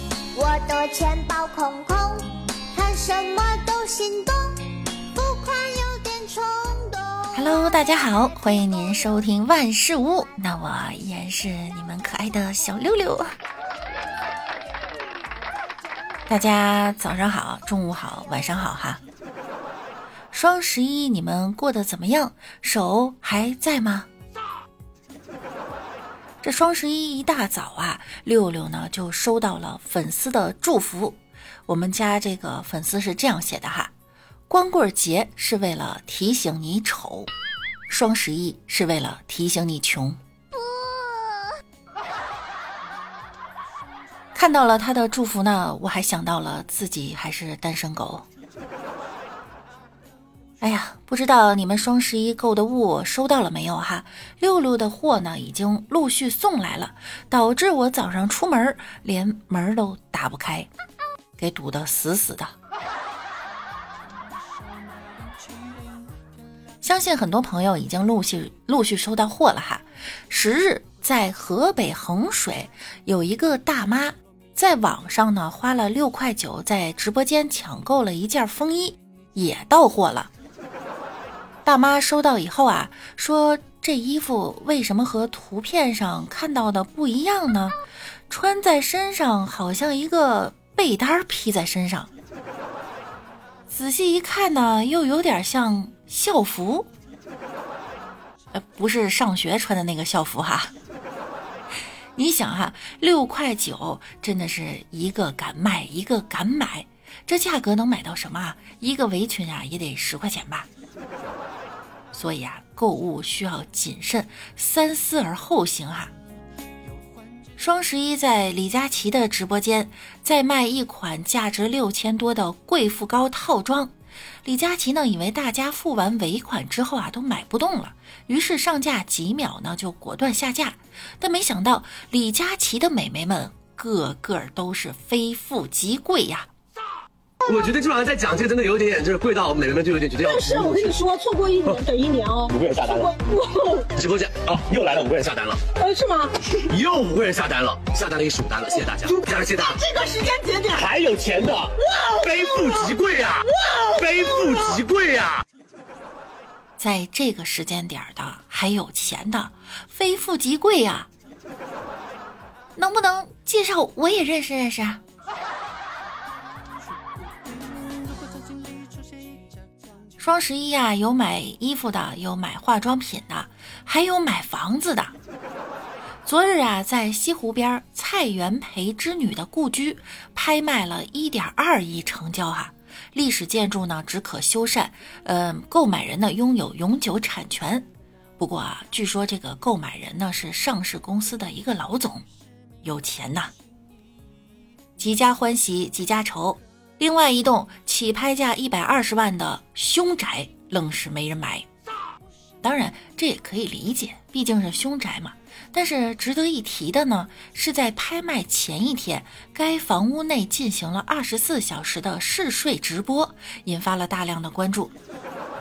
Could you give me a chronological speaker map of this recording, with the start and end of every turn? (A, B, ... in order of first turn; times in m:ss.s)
0:00.3-0:02.2 A
0:02.7-0:04.5 A
0:05.1-0:07.5 A
0:07.3-0:13.4 B
0:16.3-0:19.0 B
0:20.3-0:24.1 B
0:26.4-0:33.9 B
0:34.5-0:37.3 B
0:37.9-0:40.2 B
0:40.7-0:41.3 A
0:44.3-0:48.3 B
0:50.6-1:00.7 B
1:01.4-1:02.5 B
1:06.8-1:20.3 B
1:21.6-1:32.1 B
1:33.7-1:36.9 B
1:38.5-1:40.7 B
1:42.2-1:50.7 B
1:52.1-1:56.1 B
1:57.6-2:03.9 B
2:04.4-2:16.5 B
2:17.4-2:21.0 C
2:20.2-2:23.9 D
2:22.5-2:23.1 C
2:23.9-2:25.7 C
2:25.8-2:26.4 D
2:26.6-2:29.8 C
2:29.0-2:30.8 D
2:30.7-2:35.4 C
2:31.8-2:32.9 D
2:33.7-2:34.6 D
2:36.8-2:41.1 B
2:42.8-2:45.0 B
2:50.2-2:55.1 B
2:56.3-3:12.2 B
3:12.8-3:13.5 B
3:15.0-3:21.7 B
3:22.6-3:34.9 B